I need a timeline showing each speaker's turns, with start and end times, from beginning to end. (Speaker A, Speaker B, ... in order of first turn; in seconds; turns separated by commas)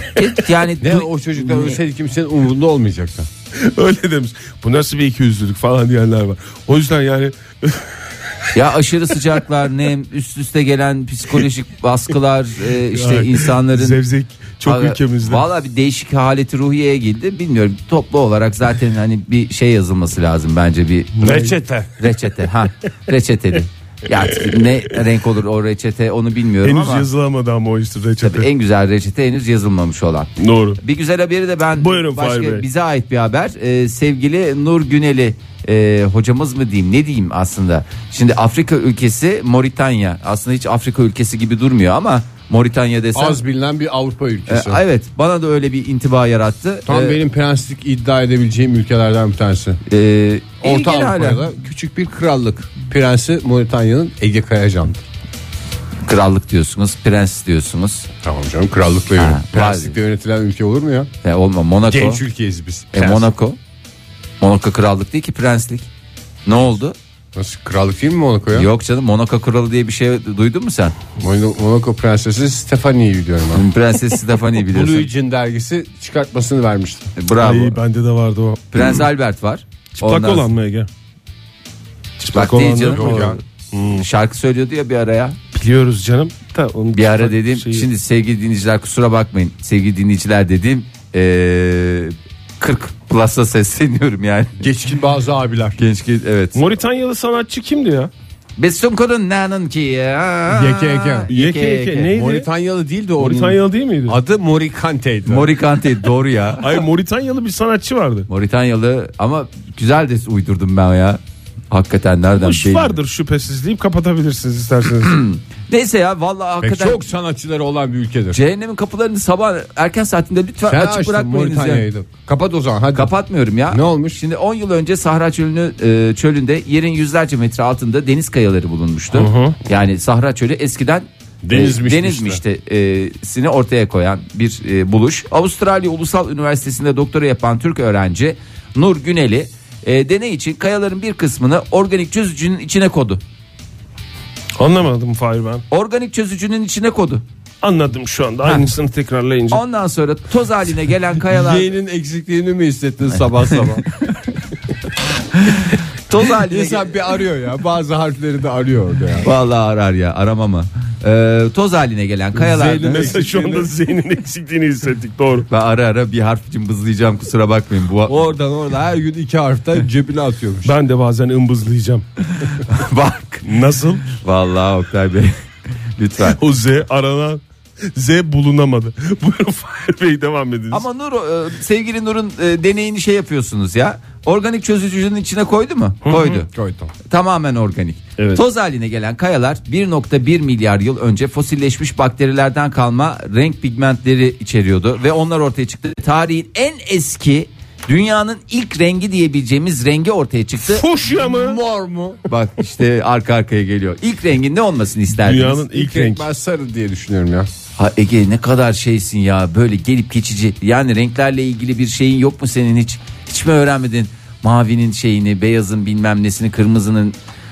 Speaker A: 0.2-1.8, Speaker B: 0.8-3.3, Speaker C: 3.6-7.8, Speaker A: 8.5-14.0, Speaker C: 12.9-15.4, Speaker A: 14.7-21.5, Speaker C: 21.2-21.6, Speaker B: 21.2-21.9, Speaker A: 22.0-27.1, Speaker C: 26.6-28.5, Speaker A: 28.2-43.4, Speaker C: 30.4-30.8, Speaker C: 31.8-32.6, Speaker B: 43.1-44.8, Speaker A: 44.5-47.2, Speaker B: 46.9-49.8, Speaker A: 49.9-51.5, Speaker B: 50.6-55.0, Speaker A: 56.0-58.1, Speaker B: 58.2-61.1, Speaker A: 59.2-60.0, Speaker A: 61.2-62.2, Speaker B: 61.9-63.3, Speaker A: 62.9-63.6, Speaker A: 64.4-65.9, Speaker A: 66.5-67.0, Speaker B: 67.3-68.7, Speaker A: 68.5-71.0, Speaker B: 71.2-73.6, Speaker A: 73.5-75.1, Speaker B: 74.7-77.1, Speaker A: 77.2-77.8, Speaker C: 77.4-78.9, Speaker A: 78.7-80.5, Speaker C: 80.0-80.9, Speaker C: 82.2-84.0, Speaker A: 82.2-83.4, Speaker B: 82.8-83.4, Speaker A: 83.9-85.4, Speaker C: 85.5-87.9, Speaker A: 86.9-94.7, Speaker B: 94.6-95.8, Speaker A: 95.8-96.6, Speaker C: 96.5-98.1, Speaker A: 98.6-102.1, Speaker B: 100.5-101.3, Speaker C: 101.3-102.5, Speaker B: 102.1-105.5, Speaker C: 103.2-104.2, Speaker A: 105.3-106.7, Speaker C: 106.6-108.3, Speaker A: 108.3-111.2, Speaker A: 111.7-113.0, Speaker C: 112.4-115.2, Speaker A: 115.0-117.0, Speaker B: 116.6-118.4, Speaker A: 118.3-121.9, Speaker B: 120.7-123.1, Speaker A: 123.0-143.2, Speaker B: 123.7-124.2, Speaker C: 129.1-129.6, Speaker B: 131.4-132.4, Speaker C: 144.6-145.6, Speaker A: 145.7-147.2, Speaker C: 147.6-149.6, Speaker A: 149.5-151.7, Speaker B: 151.3-153.8, Speaker A: 155.3-157.0, Speaker B: 156.2-159.3, Speaker A: 159.2-163.0, Speaker B: 162.4-163.7, Speaker C: 162.7-165.5, Speaker A: 165.5-168.3, Speaker B: 168.1-170.7, Speaker C: 170.7-172.0, Speaker A: 172.4-173.4, Speaker C: 173.4-174.1, Speaker A: 174.2-175.3, Speaker A: 176.0-176.4, Speaker C: 176.3-177.4, Speaker C: 177.9-180.8, Speaker A: 180.7-186.5, Speaker C: 186.1-186.4, Speaker B: 186.5-186.9, Speaker A: 187.1-200.8, Speaker C: 200.6-201.6, Speaker B: 201.1-202.2, Speaker A: 202.3-205.6, Speaker C: 205.2-206.2, Speaker B: 205.7-207.5, Speaker A: 207.8-217.2